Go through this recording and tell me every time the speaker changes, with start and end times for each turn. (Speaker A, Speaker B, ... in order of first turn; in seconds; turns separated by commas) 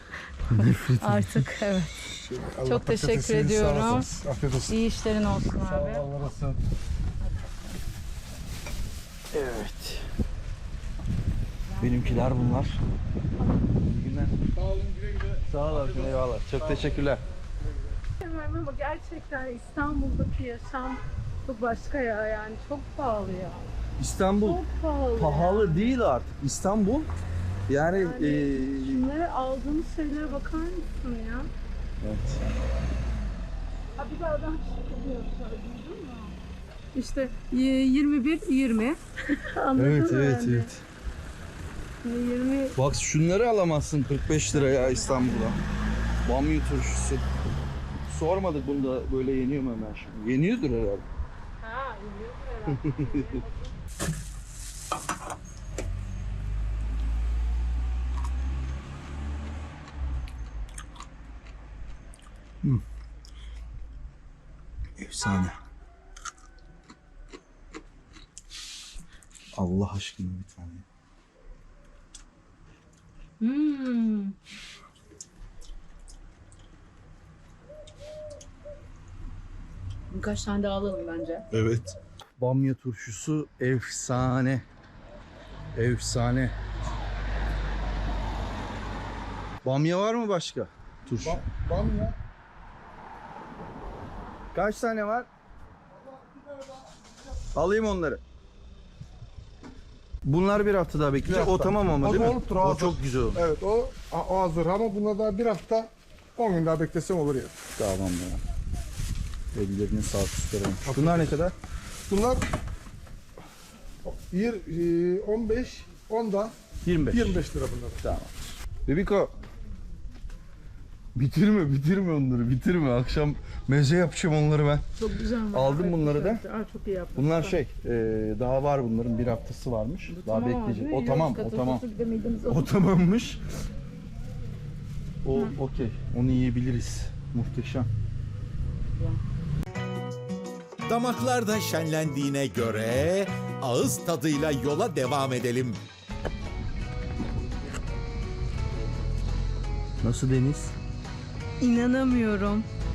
Speaker A: 0.5-1.9, Speaker B: 0.5-1.4, Speaker C: 2.1-4.8, Speaker A: 2.6-4.1, Speaker A: 4.7-6.1, Speaker C: 5.6-6.6, Speaker A: 7.2-7.5, Speaker B: 9.3-10.1, Speaker B: 11.8-12.8, Speaker A: 11.8-12.1, Speaker B: 13.8-14.4, Speaker C: 14.6-16.9, Speaker B: 15.5-17.2, Speaker A: 18.2-23.7, Speaker B: 24.0-24.6, Speaker A: 24.4-26.0, Speaker B: 25.1-27.1, Speaker B: 27.7-29.0, Speaker A: 27.9-31.5, Speaker B: 32.0-32.5, Speaker A: 34.0-36.4, Speaker A: 36.9-40.7, Speaker B: 39.8-40.8, Speaker A: 42.0-42.8, Speaker B: 42.8-45.6, Speaker A: 44.5-45.6, Speaker B: 46.2-47.2, Speaker B: 48.1-51.1, Speaker A: 51.6-53.7, Speaker B: 52.7-53.4, Speaker B: 65.0-65.6, Speaker B: 69.5-70.8, Speaker A: 73.4-74.4, Speaker A: 80.1-81.5, Speaker B: 81.5-84.7, Speaker B: 85.8-86.5, Speaker B: 89.6-91.4, Speaker C: 91.1-92.2, Speaker B: 94.5-95.3, Speaker C: 96.1-96.8, Speaker B: 97.5-98.2, Speaker B: 100.2-103.4, Speaker C: 101.2-107.6, Speaker B: 107.8-108.4, Speaker B: 109.5-111.5, Speaker C: 110.8-111.5, Speaker C: 112.1-112.5, Speaker C: 114.0-118.1, Speaker B: 116.8-117.4, Speaker B: 118.0-118.3, Speaker B: 118.9-119.3, Speaker B: 121.1-124.8, Speaker A: 125.0-127.6, Speaker B: 125.5-126.4, Speaker B: 127.2-131.8, Speaker A: 130.1-132.7, Speaker B: 132.5-133.4, Speaker B: 135.2-137.9, Speaker A: 139.0-139.2, Speaker D: 140.9-145.8, Speaker B: 150.0-150.8, Speaker A: 151.6-152.7